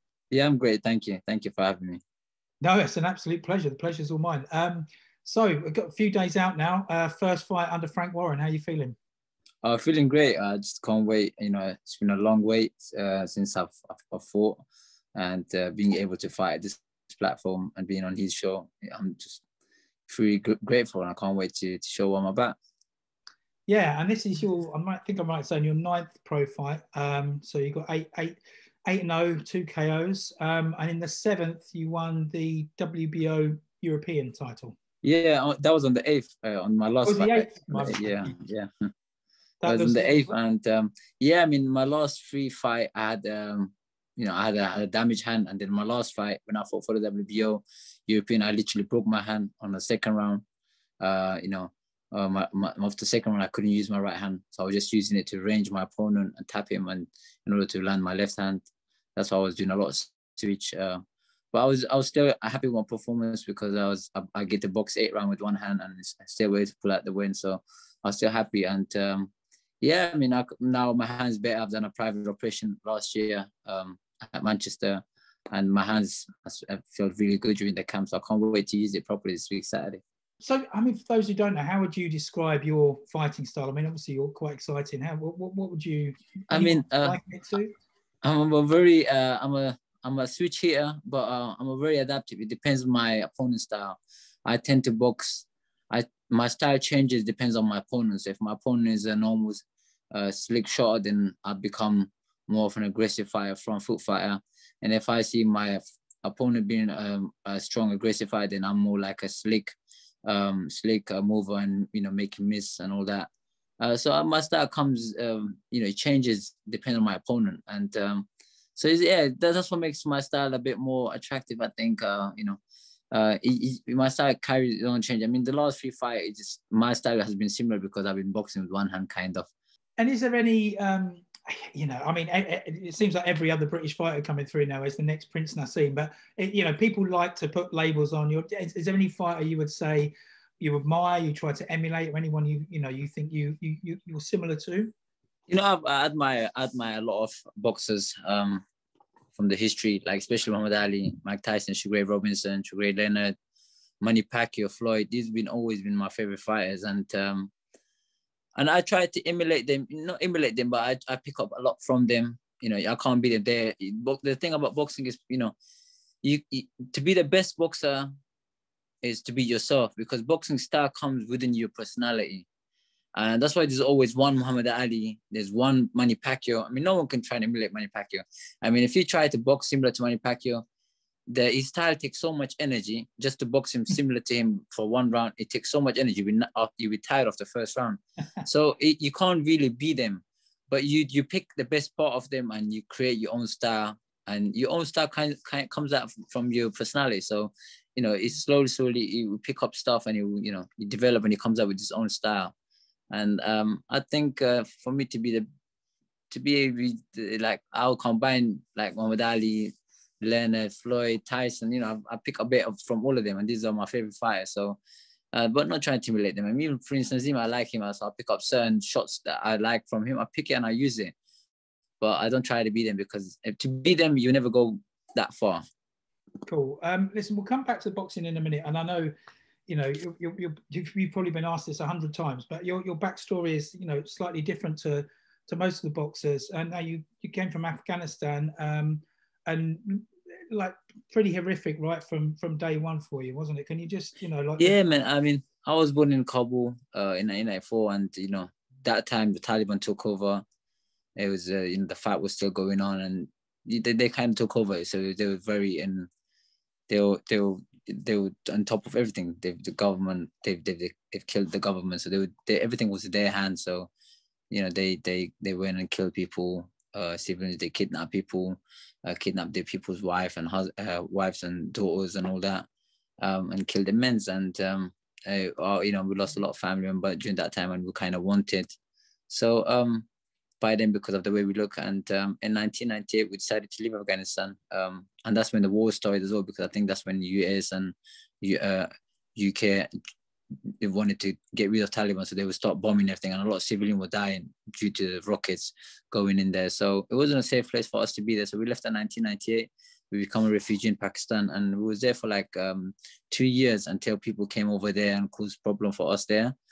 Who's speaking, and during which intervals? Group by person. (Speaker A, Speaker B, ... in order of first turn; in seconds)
Speaker A: 0.3-2.0, 9.6-14.6, 15.2-19.4, 20.1-22.6, 35.0-38.7, 39.6-50.4, 51.0-58.6, 59.2-61.0, 61.5-80.0, 86.5-87.2, 88.2-113.3, 113.8-122.6, 123.1-129.5, 145.5-148.6, 149.3-153.3, 154.0-157.5, 158.6-165.5, 166.2-168.1, 169.0-172.5, 173.2-180.6, 181.3-202.5, 203.1-205.4, 206.3-214.8, 215.3-221.1, 222.0-225.6, 244.6-250.4, 251.2-256.1, 256.9-263.9, 264.5-272.7, 273.2-278.7, 279.3-280.1, 280.6-289.9, 290.8-306.6
Speaker B: 2.6-8.9, 23.7-34.8, 37.0-38.3, 39.6-40.4, 80.4-87.7, 130.0-144.9, 226.5-229.1, 229.7-244.8